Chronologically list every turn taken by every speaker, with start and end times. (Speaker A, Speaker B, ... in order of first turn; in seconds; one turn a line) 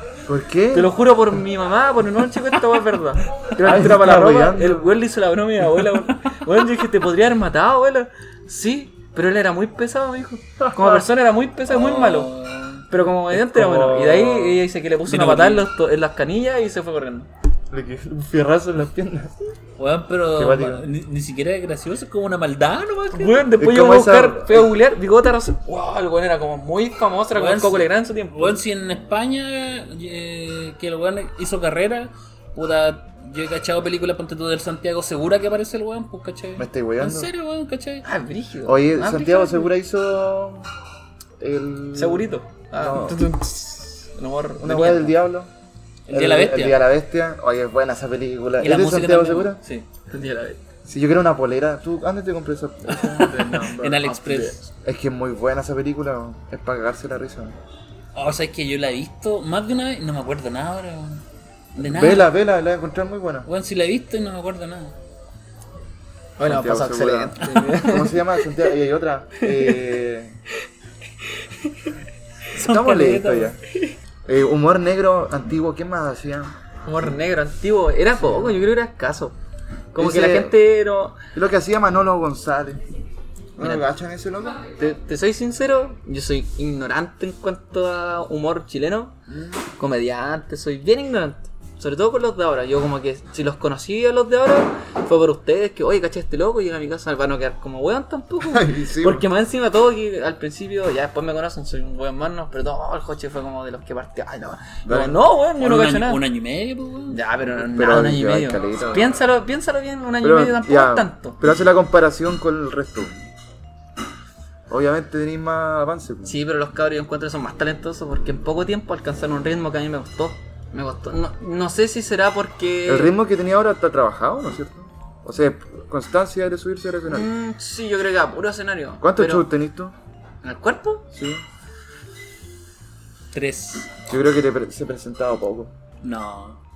Speaker A: 0.2-0.9
Speaker B: 0.7-12.3
Speaker A: 3.6-4.9
Speaker A: 10.6-11.0
Speaker C: 11.7-12.8
Speaker B: 12.9-17.3
Speaker A: 13.3-14.6
Speaker C: 15.1-15.7
Speaker A: 17.7-19.3
Speaker C: 19.8-23.5
Speaker A: 20.3-20.9
Speaker B: 23.1-28.6
Speaker A: 23.6-24.7
Speaker C: 27.3-38.0
Speaker A: 36.6-37.3
Speaker B: 38.0-39.7
Speaker A: 38.6-40.7
Speaker A: 41.4-43.3
Speaker B: 41.9-45.2
Speaker A: 44.6-45.5
Speaker C: 46.1-46.8
Speaker A: 46.1-49.6
Speaker C: 48.6-49.5
Speaker B: 49.6-50.6
Speaker A: 50.9-57.6
Speaker C: 53.0-54.7
Speaker C: 58.1-61.2
Speaker C: 61.8-62.3
Speaker A: 61.8-63.5
Speaker C: 63.5-64.9
Speaker B: 66.4-68.2
Speaker A: 66.4-70.4
Speaker C: 71.7-71.9
Speaker C: 72.5-73.6
Speaker A: 72.5-73.6
Speaker A: 74.2-76.5
Speaker B: 76.8-79.3
Speaker A: 78.2-78.6
Speaker B: 79.9-81.2
Speaker A: 80.0-80.5
Speaker A: 81.3-82.8
Speaker A: 83.5-84.7
Speaker B: 84.8-89.1
Speaker A: 89.3-89.6
Speaker B: 89.8-106.2
Speaker A: 98.4-99.3
Speaker A: 104.8-105.2
Speaker C: 105.6-107.2
Speaker B: 107.1-111.4
Speaker A: 107.6-109.2
Speaker A: 110.2-113.1
Speaker A: 114.7-116.4
Speaker B: 116.2-123.2
Speaker A: 122.8-127.3
Speaker B: 127.1-129.5
Speaker A: 129.0-129.9
Speaker B: 130.4-131.1
Speaker A: 131.1-131.4
Speaker C: 133.3-133.9
Speaker A: 134.1-135.7
Speaker C: 136.0-136.6